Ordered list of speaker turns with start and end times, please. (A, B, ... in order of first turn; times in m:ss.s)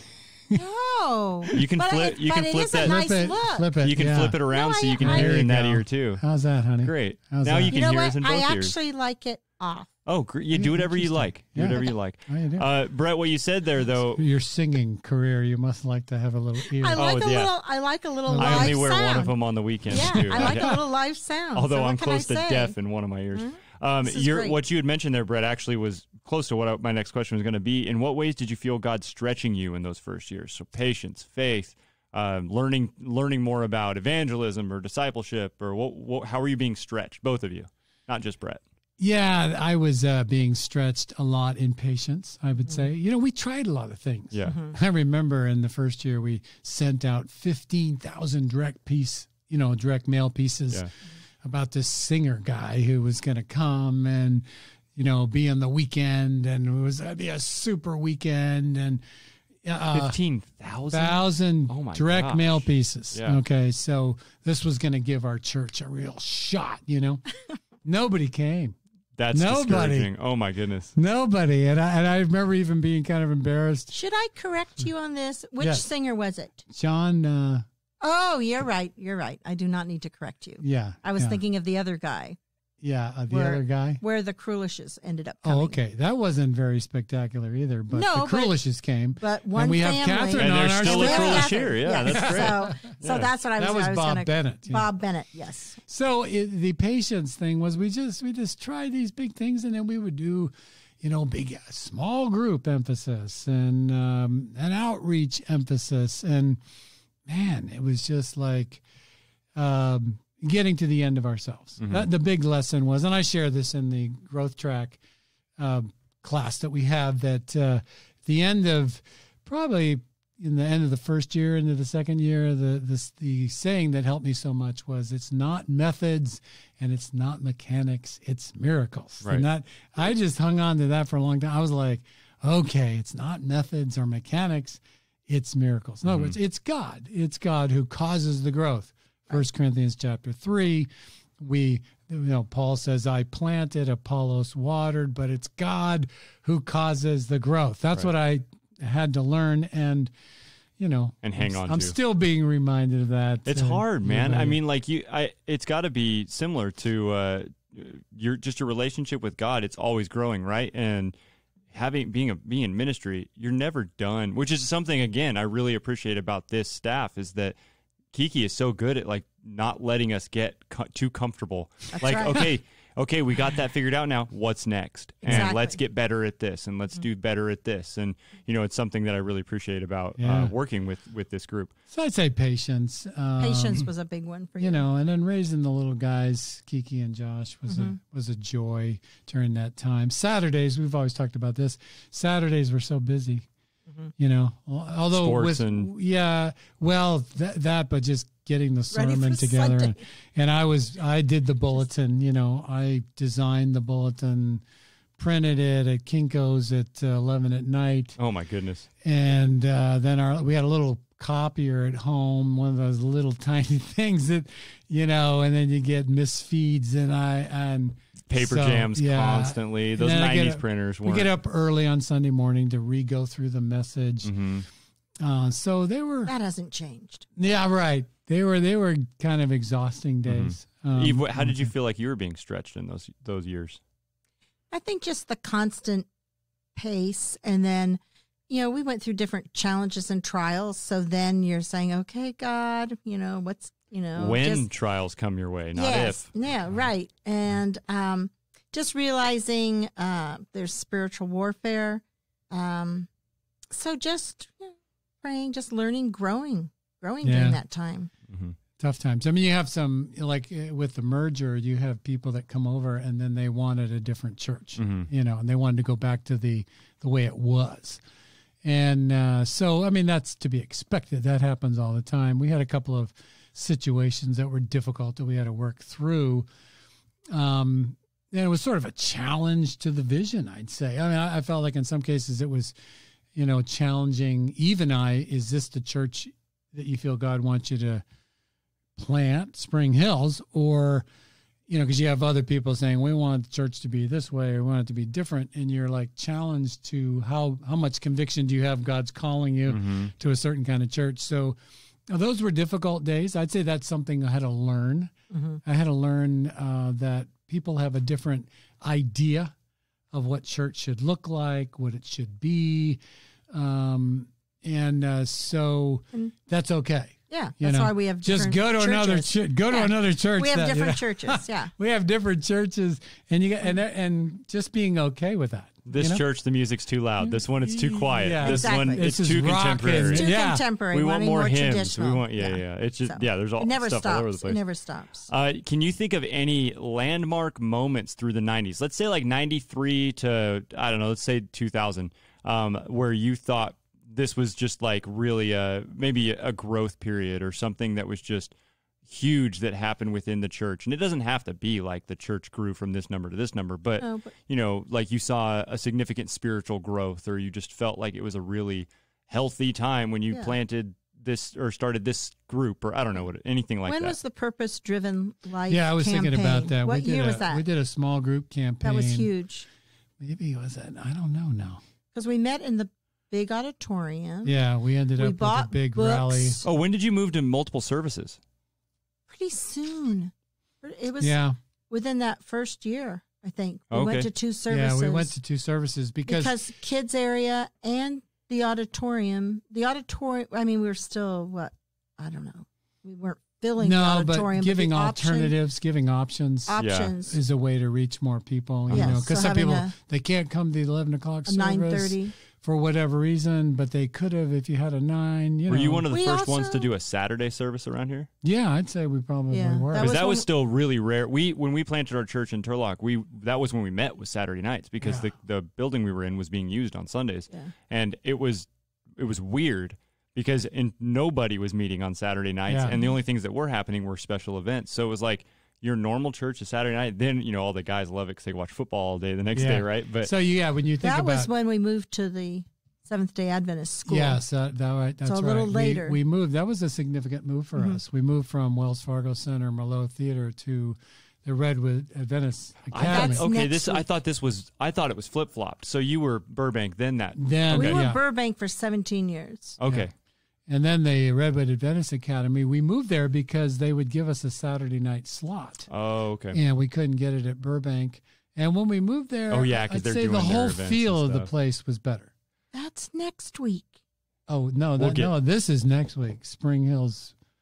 0:00.5-0:03.9 A
0:01.5-0:03.0 B
0:02.8-0:04.4 C
0:03.8-0:06.2 B
0:04.5-0:05.4 A
0:05.0-0:07.8 C
0:06.8-0:08.8 B
0:07.7-0:09.9 A
0:10.1-0:14.2 B
0:10.5-0:12.7 C
0:14.2-0:17.0 C
0:16.6-0:19.4 A
0:17.0-0:17.5 B
0:18.3-0:18.8 C
0:18.4-0:20.8 B
0:19.9-0:22.8 A
0:19.9-0:20.8 C
0:21.5-0:38.6 B
0:23.3-0:24.6 A
0:39.0-0:50.9 C
0:44.3-0:44.6 B
0:44.5-0:44.8 A
0:51.4-0:59.0 C
0:59.6-1:00.2 C
0:59.9-1:03.4 B
1:00.9-1:07.3 C
1:07.8-1:08.8 C
1:09.2-1:10.9 B
1:09.3-1:10.1 C
1:11.0-1:13.9 C
1:13.9-1:16.6 A
1:15.6-1:15.9 C
1:16.7-1:17.7 C
1:18.0-1:22.4 A
1:20.6-1:21.4 C
1:22.8-1:24.0 C
1:23.3-1:25.8 A
1:25.4-1:32.8 C
1:27.9-1:28.6 A
1:29.2-1:35.8 A
1:30.4-1:33.3 B
1:33.6-1:34.9 C
1:35.9-1:46.6 C
1:47.3-1:48.8 C
1:49.6-1:55.0 C
1:51.8-1:52.1 B
1:55.6-2:30.1 C
2:16.1-2:16.4 B
2:30.8-2:34.6 C
2:31.2-2:32.0 B
2:33.5-2:41.2 B
2:41.7-2:47.6 B
2:48.1-3:01.7 B
2:51.9-2:52.5 A
2:55.2-2:55.8 A
3:00.2-3:00.5 C
3:01.9-3:03.9 C
3:03.4-3:04.9 A
3:04.6-3:13.5 C
3:07.7-3:08.0 A
3:14.2-3:24.6 C
3:15.1-3:15.9 B
3:18.9-3:20.0 A
3:25.2-3:28.2 C
3:28.2-3:28.9 B
3:29.0-3:44.4 C
3:38.3-3:41.3 B
3:44.2-3:44.6 B
3:45.2-3:46.3 C
3:46.3-3:47.3 A
3:47.4-3:51.7 C
3:50.3-3:53.8 B
3:54.7-3:56.1 A
3:56.8-4:04.7 A
4:04.2-4:06.3 B
4:05.8-4:13.1 A
4:13.7-4:18.1 A
4:17.2-4:17.6 C
4:18.3-4:18.6 B
4:18.8-4:28.0 C
4:24.8-4:25.1 B
4:28.6-4:36.5 C
4:37.3-4:42.7 C
4:43.4-4:48.1 C
4:49.0-4:51.0 C
4:51.7-5:05.1 C
4:59.7-5:00.1 B
5:05.3-5:05.6 A
5:05.6-5:09.5 C
5:10.1-5:13.0 C
5:13.5-5:26.2 C
5:17.3-5:21.7 A
5:25.9-5:30.3 B
5:27.2-5:30.6 C
5:28.4-5:29.1 A
5:30.0-5:35.3 A
5:30.9-5:34.6 B
5:35.3-6:04.2 B
5:54.0-5:54.3 A
6:03.9-6:07.6 A
6:05.7-6:09.3 C
6:08.8-6:09.7 A
6:10.2-6:11.8 C
6:12.1-6:14.5 A
6:14.4-6:16.6 C
6:15.2-6:16.6 A
6:16.6-6:18.4 B
6:19.3-6:21.4 A
6:21.2-6:21.6 C
6:21.9-6:25.3 A
6:23.9-6:24.3 B
6:24.7-6:26.6 C
6:26.3-6:35.5 A
6:33.8-6:46.1 C
6:36.7-6:37.4 A
6:36.8-6:37.1 B
6:38.9-6:39.2 B
6:38.9-6:39.9 A
6:41.5-6:42.3 A
6:45.7-6:48.3 B
6:46.1-6:46.9 A
6:48.4-6:50.1 C
6:49.5-6:50.5 A
6:50.0-7:10.3 B
6:55.0-6:55.3 C
7:02.7-7:03.0 C
7:09.6-7:11.5 C
7:11.0-7:14.4 A
7:14.0-7:23.4 C
7:15.2-7:16.2 A
7:17.8-7:18.0 A
7:22.9-7:28.1 B
7:23.0-7:24.0 A
7:27.4-7:28.2 C
7:27.7-7:29.8 A
7:29.8-7:30.1 B
7:30.7-7:35.9 C
7:35.9-7:36.6 B
7:36.5-7:42.3 C
7:39.5-7:41.5 B
7:42.7-7:43.9 A
7:44.5-7:47.4 C
7:45.0-7:45.3 B